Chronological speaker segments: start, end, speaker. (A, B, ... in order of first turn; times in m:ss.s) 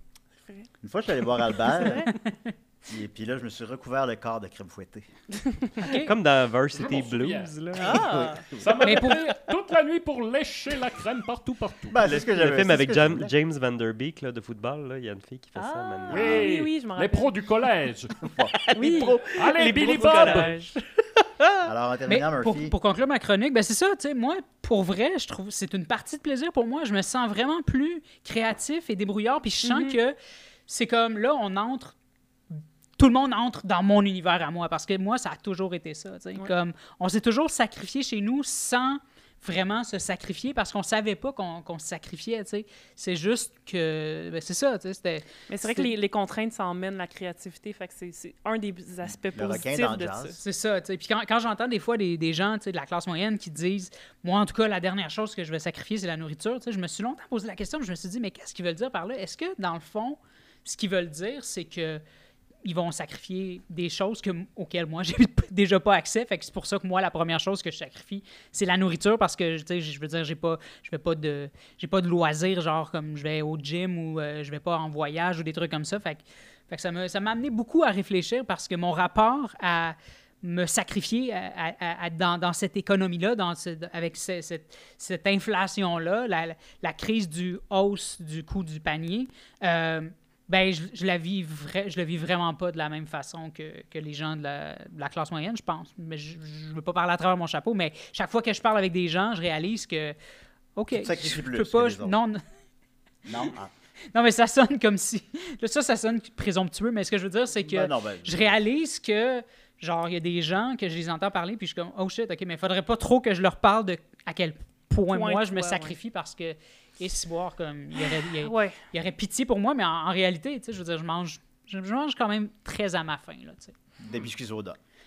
0:00.4-0:00.7 A
0:00.8-0:02.1 B
0:01.6-0:02.5 C
0:01.8-0:02.1 A
0:02.9-0:05.0 B
0:05.8-0:06.1 C
0:05.8-0:08.2 D
0:06.7-0:07.8 E
0:07.7-0:08.4 A
0:07.9-0:08.7 B
0:08.5-0:12.0 E
0:08.8-0:09.4 C
0:11.9-0:13.3 B
0:12.0-0:16.3 D
0:15.6-0:17.3 A
0:16.1-0:18.1 E
0:18.2-0:18.9 B
0:18.6-0:21.7 D
0:18.7-0:20.7 A
0:19.4-0:20.6 E
0:21.6-0:22.7 B
0:22.1-0:30.2 C
0:29.6-0:30.0 A
0:30.7-0:31.9 C
0:32.5-0:45.9 C
0:45.5-0:50.4 A
0:49.3-0:50.3 B
0:50.4-1:02.0 C
1:02.6-1:40.2 C
1:40.8-1:42.4 C
1:40.9-1:42.2 B
1:43.2-1:43.7 B
1:44.1-2:03.7 C
1:47.7-1:48.6 B
1:55.1-1:55.9 A
1:58.0-1:58.8 A
2:04.0-2:04.8 B